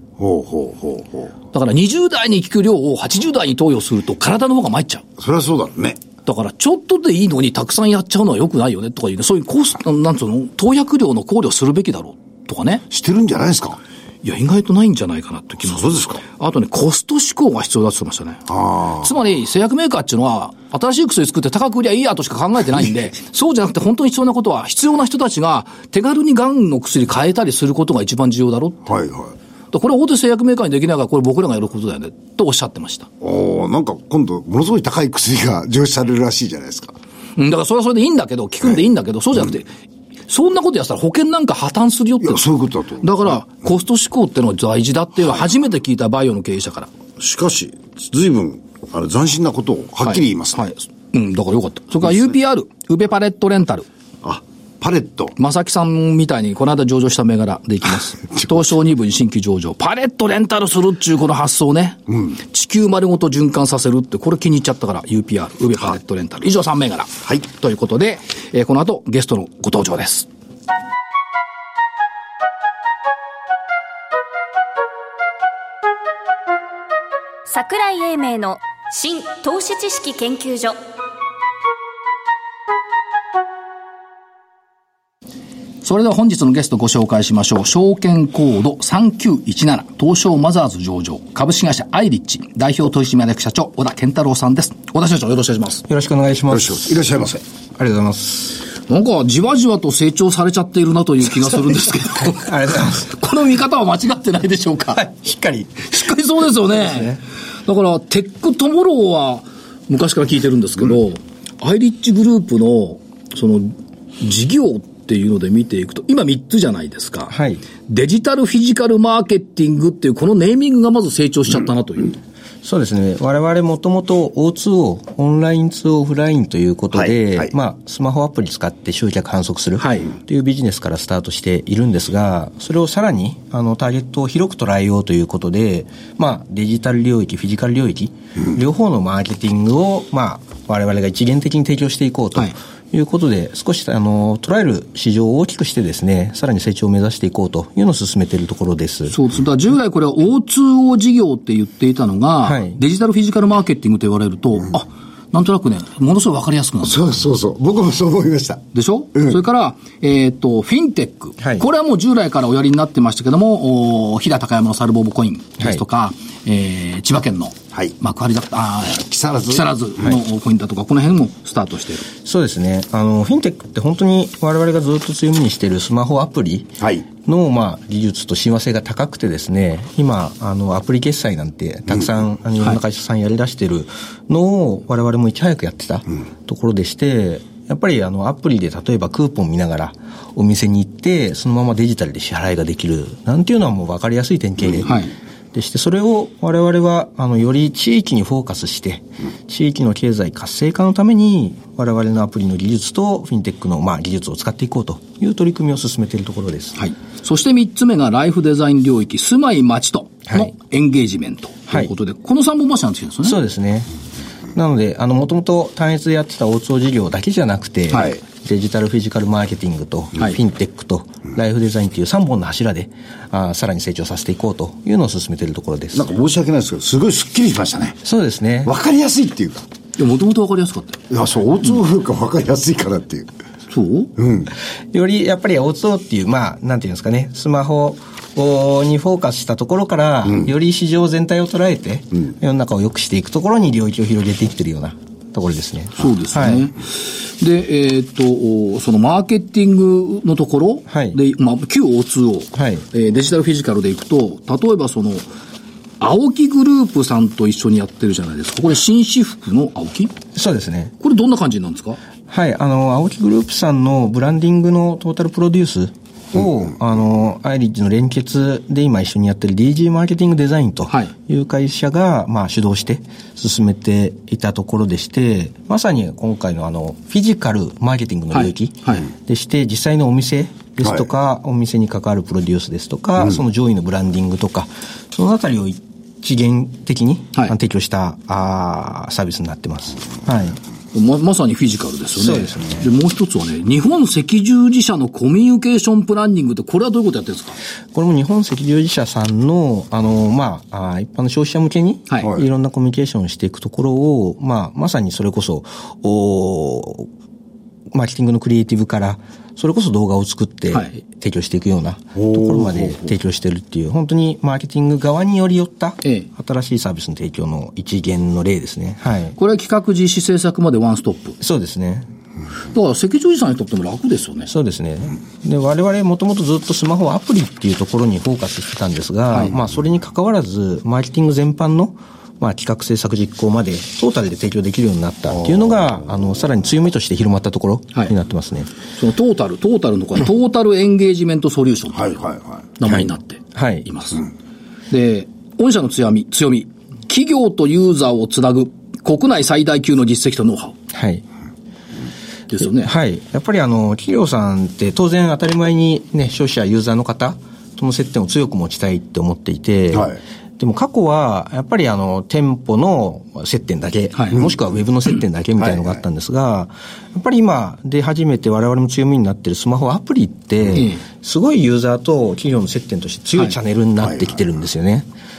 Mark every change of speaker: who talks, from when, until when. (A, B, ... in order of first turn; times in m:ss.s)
0:00.2-0:01.3 A
0:01.5-0:05.0 B
0:05.2-0:06.0 A
0:06.3-0:12.8 B
0:12.9-0:13.8 A
0:14.2-0:28.9 B
0:15.6-0:16.2 A
0:18.5-0:19.1 A
0:28.9-0:29.4 A
0:29.7-0:33.1 B
0:33.2-0:37.0 A
0:37.4-0:39.7 B
0:40.3-0:42.5 B
0:42.2-0:43.1 A
0:43.0-0:46.9 B
0:47.2-0:50.6 A
0:50.0-0:53.9 B
0:54.2-0:55.4 A
0:55.4-1:10.3 B
1:17.5-1:20.8 C
1:25.8-1:35.9 B
1:35.9-1:37.0 D
1:36.5-1:37.4 A
1:37.8-1:38.6 D
1:38.9-1:45.1 B
1:42.2-1:43.2 D
1:45.0-1:45.9 D
1:45.8-1:57.3 B
1:46.8-1:47.2 D
1:57.3-1:57.6 D
1:57.9-2:02.2 B
2:02.6-2:29.2 D
2:07.0-2:07.5 A
2:09.8-2:10.1 B
2:29.1-2:37.0 B
2:32.4-2:32.8 D
2:36.8-2:39.4 A
2:38.7-2:52.1 B
2:41.4-2:41.7 D
2:49.0-2:49.6 A
2:52.2-3:15.0 D
2:56.8-2:57.1 A
3:14.8-3:15.1 B
3:15.5-3:26.8 D
3:26.8-3:33.4 B
3:33.2-3:33.9 D
3:34.5-3:46.1 D
3:45.9-3:48.0 A
3:48.0-3:48.7 D
3:48.6-3:49.6 A
3:50.0-3:51.0 B
3:51.1-3:53.3 A
3:53.7-3:54.1 B
3:54.2-3:54.5 A
3:54.9-4:06.7 D
4:06.0-4:15.3 B
4:10.9-4:11.2 D
4:12.5-4:12.8 D
4:16.0-4:20.1 B
4:20.4-4:20.9 D
4:21.0-4:22.0 B
4:22.3-4:50.6 D
4:38.3-4:39.1 B
4:50.9-4:57.6 B
4:52.2-4:52.9 D
4:57.9-5:07.1 D
5:07.9-5:19.4 D
5:12.2-5:13.0 A
5:19.4-5:21.4 B
5:21.4-5:22.1 D
5:22.7-5:24.5 B
5:24.5-5:38.7 D
5:39.0-5:42.2 B
5:42.0-5:42.7 A
5:42.8-5:44.2 B
5:42.8-5:43.9 D
5:44.9-5:50.8 B
5:50.9-5:51.2 D
5:52.5-5:52.9 B
5:52.8-6:15.1 D
6:04.2-6:04.4 B
6:05.6-6:05.9 A
6:10.7-6:11.0 B